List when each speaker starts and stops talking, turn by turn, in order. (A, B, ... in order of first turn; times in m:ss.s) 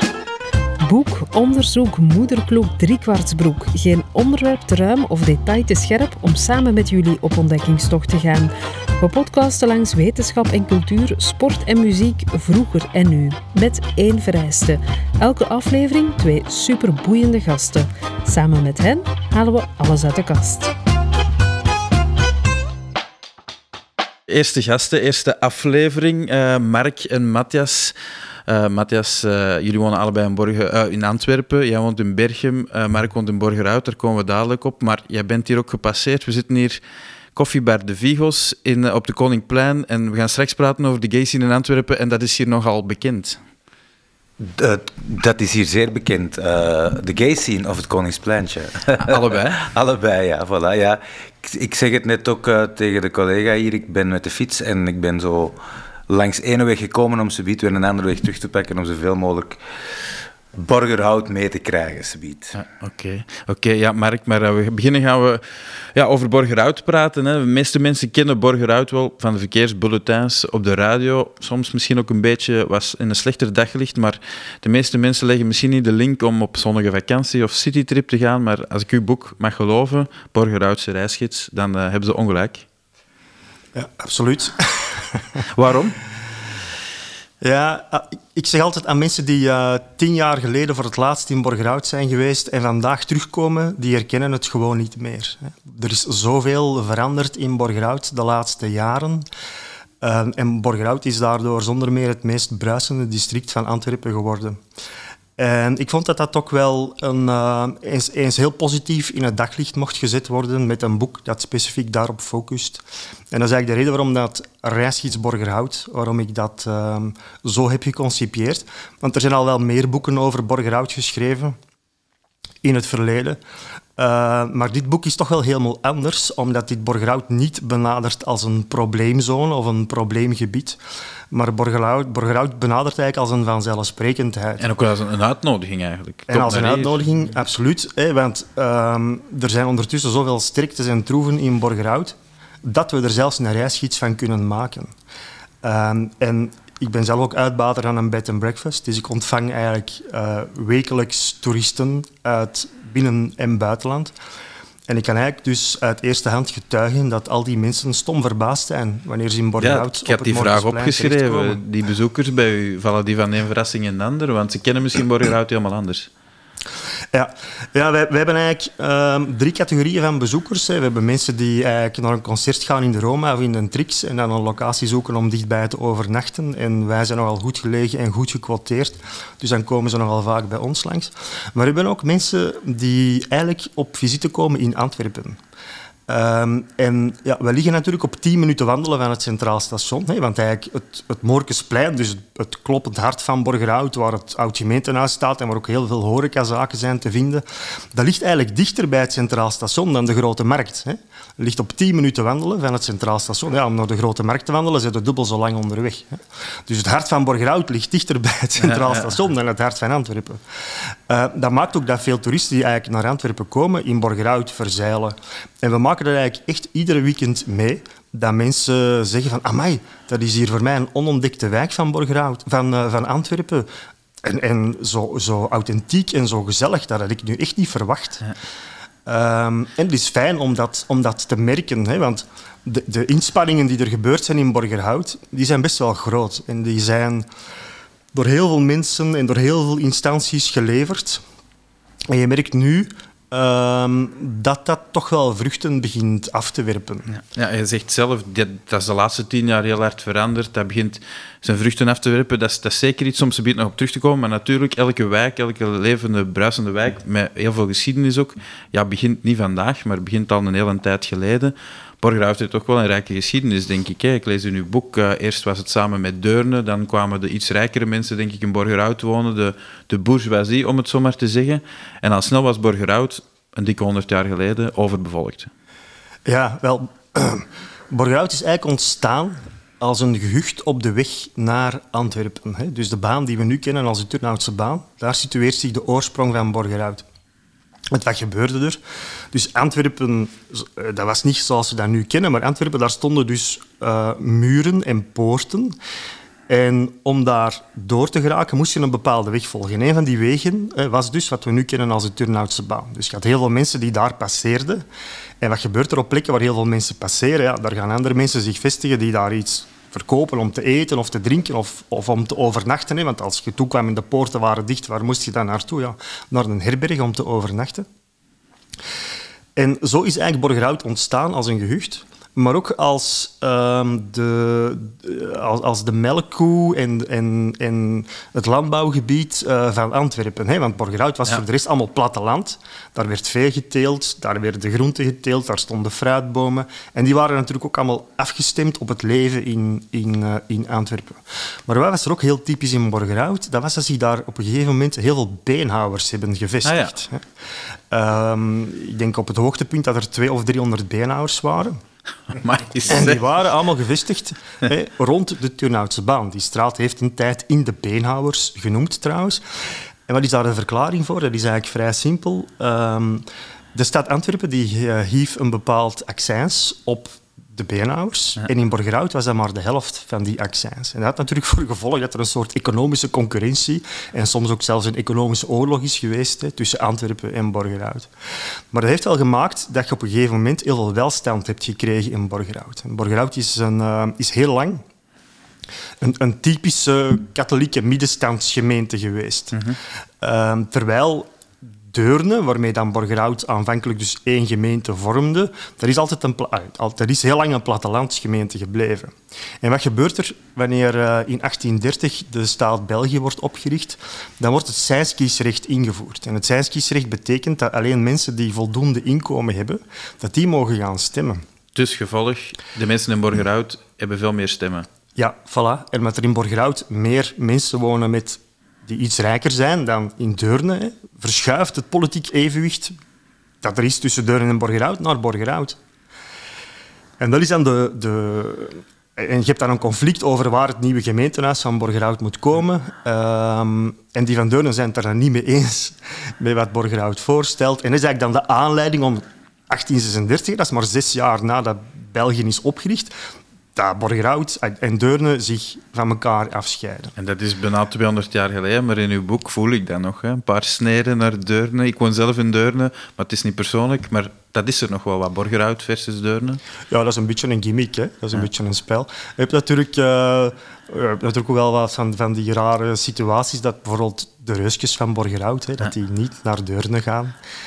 0:00.8-0:20.7 A
0:24.3-0:27.9 B
0:28.5-0:36.8 B
0:37.3-0:43.4 B
0:44.4-0:55.6 C
0:49.0-0:49.7 B
0:56.1-0:59.6 C
1:00.5-1:02.5 C
1:02.5-1:22.6 B
1:23.7-1:25.4 D
1:25.5-1:26.0 B
1:27.4-1:39.2 D
1:40.0-1:44.6 D
1:45.4-2:01.6 D
2:02.6-2:03.4 D
2:04.0-2:10.8 D
2:11.3-2:14.6 D
2:14.6-2:17.0 B
2:16.3-2:24.9 D
2:25.6-2:34.1 D
2:34.9-2:41.6 D
2:39.6-2:46.1 B
2:47.1-3:05.4 D
3:06.1-3:43.7 D
3:44.2-3:48.3 D
3:49.0-3:57.3 D
3:58.1-4:01.2 D
4:02.1-4:07.1 D
4:07.1-4:35.5 B
4:36.2-4:47.0 D
4:47.9-4:48.8 D
4:49.3-4:55.8 D
4:56.5-5:04.8 D
5:05.4-5:17.9 D
5:19.6-5:47.2 D
5:46.6-5:47.0 B
5:47.9-5:51.8 D
5:52.3-5:53.2 B
5:52.9-5:59.4 D
6:00.1-6:18.1 D
6:18.7-6:24.8 D
6:26.0-6:29.6 D
6:29.5-6:29.8 B
6:30.2-6:31.3 D
6:31.9-6:51.4 D
6:51.7-6:54.9 B
6:55.2-7:02.9 D
7:03.6-7:05.8 D
7:07.2-7:23.1 D
7:23.7-7:27.1 D
7:27.2-7:36.6 B
7:36.9-7:47.4 D